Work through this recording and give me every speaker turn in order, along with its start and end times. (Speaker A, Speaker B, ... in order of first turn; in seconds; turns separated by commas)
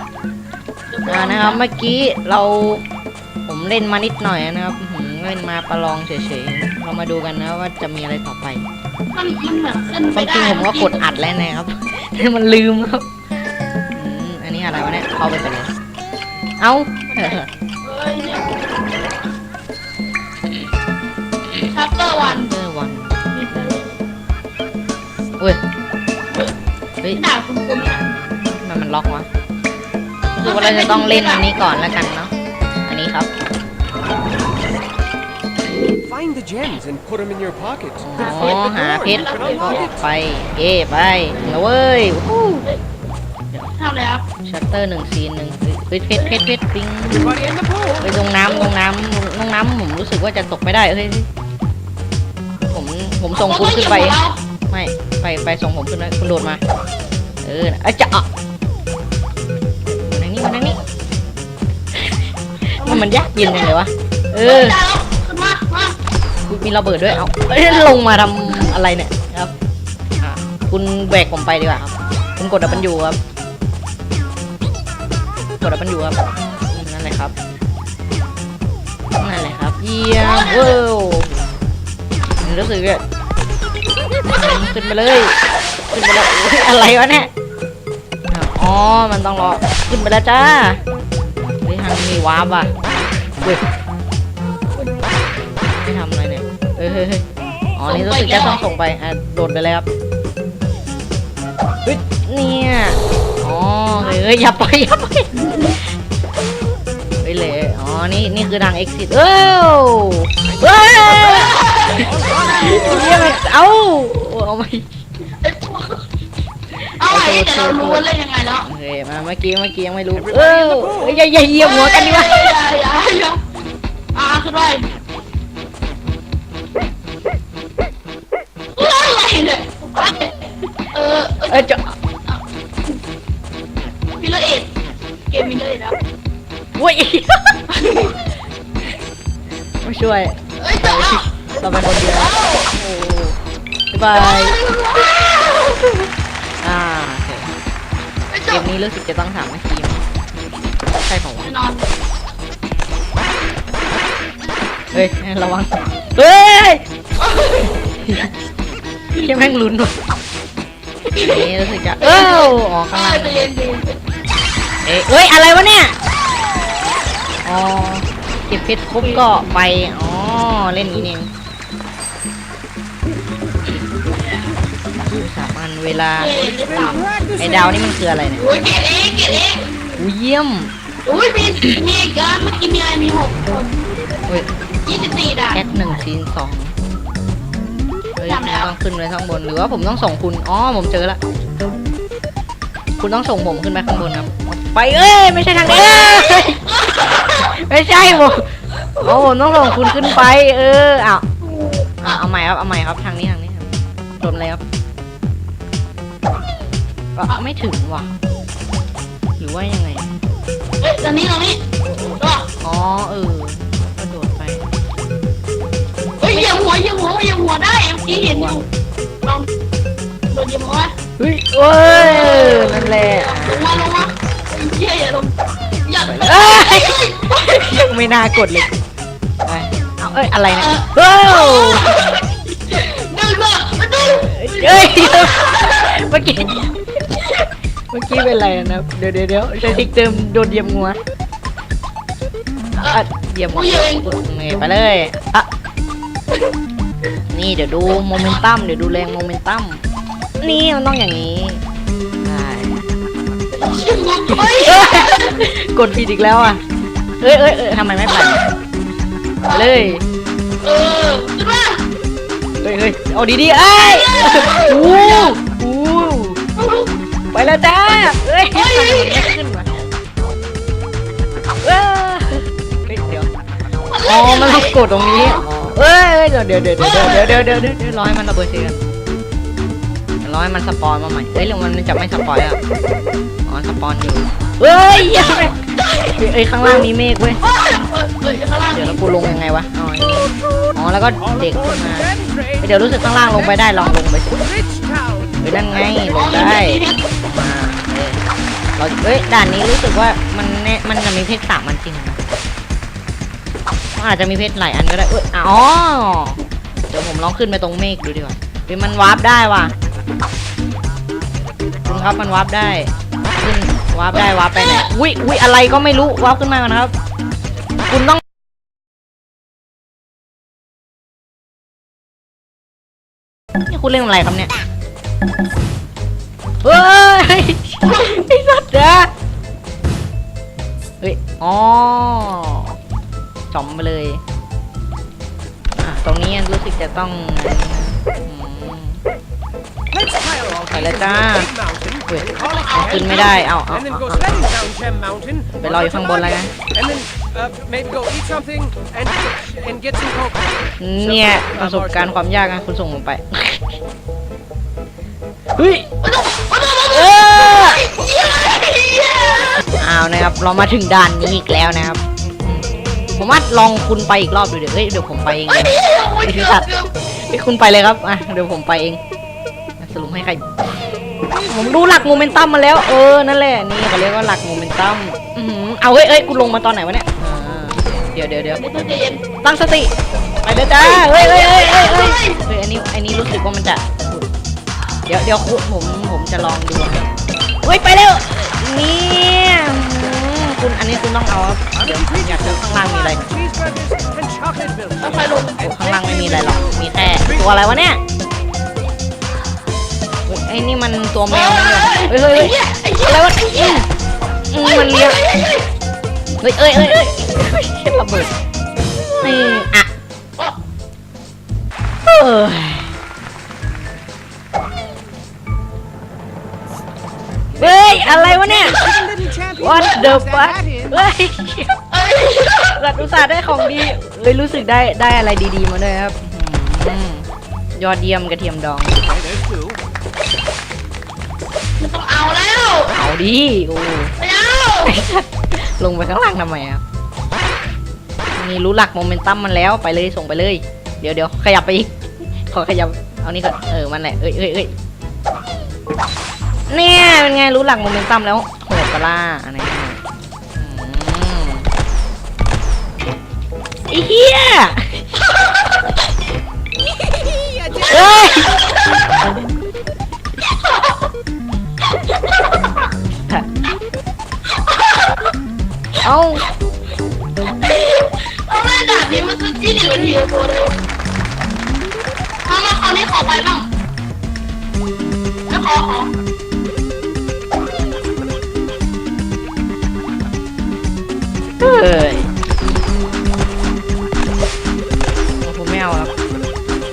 Speaker A: 0.9-1.6, Speaker B: 1.1-2.8, Speaker B: 3.5-8.6, Speaker A: 9.1-11.0, Speaker B: 10.1-13.1, Speaker B: 13.9-15.7, Speaker B: 16.6-17.5, Speaker A: 17.1-19.1, Speaker A: 21.6-22.5, Speaker B: 22.2-23.8, Speaker A: 23.3-24.0, Speaker A: 27.1-28.1, Speaker B: 27.8-29.3, Speaker B: 30.4-32.3, Speaker A: 30.4-31.5, Speaker B: 32.9-33.3, Speaker C: 36.1-37.9, Speaker B: 38.0-42.6, Speaker A: 38.2-40.0, Speaker A: 41.3-41.6, Speaker A: 43.8-44.2, Speaker B: 44.4-47.4, Speaker A: 47.2-48.5, Speaker B: 48.0-51.3, Speaker B: 52.6-54.2, Speaker A: 53.3-54.4, Speaker B: 54.7-56.6, Speaker B: 57.4-58.3, Speaker B: 60.0-60.8, Speaker B: 61.9-64.8, Speaker A: 62.8-63.8, Speaker A: 64.4-66.0, Speaker B: 66.5-69.5, Speaker B: 70.2-73.2, Speaker B: 75.6-77.3, Speaker B: 79.2-81.4, Speaker A: 80.2-80.8, Speaker B: 82.4-83.0, Speaker B: 84.3-85.3, Speaker B: 85.9-87.3, Speaker B: 88.3-90.8, Speaker B: 91.6-92.8, Speaker B: 95.8-97.2, Speaker B: 97.8-99.9, Speaker A: 97.8-98.7, Speaker B: 101.8-105.8, Speaker A: 105.4-105.8, Speaker B: 107.2-114.9, Speaker A: 111.1-113.3, Speaker A: 115.4-116.0, Speaker A: 117.0-118.7, Speaker B: 117.0-118.0, Speaker B: 118.6-122.5, Speaker A: 121.6-123.4, Speaker A: 124.1-125.0, Speaker A: 128.8-131.7, Speaker B: 131.5-131.9, Speaker A: 132.3-132.9, Speaker A: 134.2-134.7, Speaker A: 135.3-136.0, Speaker B: 136.8-137.6, Speaker A: 137.7-138.2, Speaker B: 139.8-143.4, Speaker A: 140.6-142.7, Speaker B: 143.9-144.6, Speaker A: 144.1-146.0, Speaker B: 146.6-147.5, Speaker A: 148.3-148.7, Speaker B: 148.5-150.0, Speaker B: 150.9-151.5, Speaker A: 151.4-151.9, Speaker B: 154.9-156.8, Speaker A: 157.2-157.8, Speaker B: 157.8-158.3, Speaker B: 159.2-159.9, Speaker A: 161.1-164.0, Speaker B: 161.2-163.4, Speaker B: 164.8-165.9, Speaker B: 167.4-171.3, Speaker A: 173.9-174.6, Speaker B: 175.0-176.4, Speaker A: 176.2-177.2, Speaker B: 177.3-178.4, Speaker A: 178.3-180.0, Speaker B: 180.0-180.7, Speaker A: 181.0-183.7, Speaker A: 184.8-185.6, Speaker B: 185.5-186.7, Speaker B: 188.2-191.2, Speaker A: 188.2-188.7, Speaker B: 193.0-196.6, Speaker A: 195.7-197.6, Speaker B: 197.3-198.5, Speaker A: 198.9-200.2, Speaker B: 199.0-201.2, Speaker A: 201.4-202.2, Speaker B: 202.0-204.6, Speaker B: 207.2-208.1, Speaker B: 209.4-210.1, Speaker A: 210.8-212.5, Speaker B: 212.6-214.7, Speaker A: 216.2-218.7, Speaker A: 219.2-219.5, Speaker A: 220.3-220.9, Speaker B: 221.2-223.8, Speaker A: 221.8-227.7, Speaker B: 226.1-228.7, Speaker B: 229.4-231.9, Speaker A: 230.5-236.0, Speaker B: 234.2-241.0, Speaker A: 242.8-243.0, Speaker B: 242.9-245.5, Speaker A: 243.5-244.1, Speaker B: 247.3-249.8, Speaker A: 247.9-248.4, Speaker B: 250.4-251.6, Speaker B: 252.2-252.9, Speaker A: 253.5-255.4, Speaker B: 254.3-256.6, Speaker B: 257.2-258.4, Speaker A: 259.4-259.7, Speaker B: 259.5-260.0, Speaker A: 260.6-261.9, Speaker B: 262.6-266.4, Speaker A: 263.8-265.4, Speaker A: 266.6-266.9, Speaker B: 267.3-269.7, Speaker A: 268.5-269.4, Speaker B: 271.6-273.3, Speaker A: 273.9-275.4, Speaker B: 274.0-278.8, Speaker A: 276.8-277.6, Speaker B: 280.2-282.6, Speaker B: 283.5-287.4, Speaker A: 285.1-286.1, Speaker A: 287.4-289.0, Speaker B: 288.7-294.4, Speaker B: 295.4-298.2, Speaker A: 295.9-297.0, Speaker B: 298.8-302.2, Speaker B: 303.9-309.7, Speaker B: 311.9-316.9, Speaker A: 314.2-314.9, Speaker B: 317.9-318.2, Speaker B: 323.7-324.5, Speaker B: 326.6-329.1, Speaker B: 331.0-332.8, Speaker B: 333.5-334.2, Speaker B: 335.8-339.0, Speaker C: 340.0-340.6, Speaker B: 340.7-341.5, Speaker B: 342.1-344.6, Speaker A: 342.4-343.4, Speaker C: 344.6-345.4, Speaker B: 345.5-346.6, Speaker C: 346.8-350.3, Speaker B: 350.8-353.8, Speaker B: 355.6-355.9, Speaker A: 356.0-359.5, Speaker B: 356.9-357.8, Speaker B: 359.8-366.7, Speaker A: 365.5-366.9, Speaker B: 367.3-369.0, Speaker B: 369.8-370.5, Speaker B: 371.3-378.6, Speaker A: 378.6-379.2, Speaker B: 379.4-379.9, Speaker B: 380.4-384.2, Speaker A: 380.5-382.4, Speaker B: 385.1-387.1, Speaker B: 387.6-393.2, Speaker C: 393.4-394.9, Speaker A: 395.0-395.8, Speaker B: 395.6-398.0, Speaker B: 400.3-402.5, Speaker A: 401.3-403.8, Speaker B: 403.1-403.9, Speaker B: 404.5-405.2, Speaker A: 404.6-405.7, Speaker B: 406.4-408.3, Speaker B: 409.1-409.9, Speaker B: 412.1-412.9, Speaker B: 417.5-418.9, Speaker A: 418.6-419.9, Speaker B: 419.5-421.7, Speaker A: 421.9-422.9, Speaker B: 422.8-429.0, Speaker C: 429.2-429.8, Speaker A: 431.8-432.9, Speaker B: 432.9-434.1, Speaker A: 434.2-435.0, Speaker B: 434.9-436.8, Speaker B: 438.4-441.9, Speaker B: 442.5-444.7, Speaker B: 446.7-450.0, Speaker B: 450.6-451.7, Speaker B: 453.9-455.2, Speaker A: 455.4-455.8, Speaker A: 457.7-459.3, Speaker B: 457.9-458.5, Speaker A: 460.4-461.1, Speaker A: 461.8-462.9, Speaker A: 464.5-465.3, Speaker B: 466.0-466.5, Speaker A: 467.4-470.8, Speaker A: 472.4-473.7, Speaker A: 475.5-476.1, Speaker B: 481.6-482.3, Speaker B: 485.4-486.1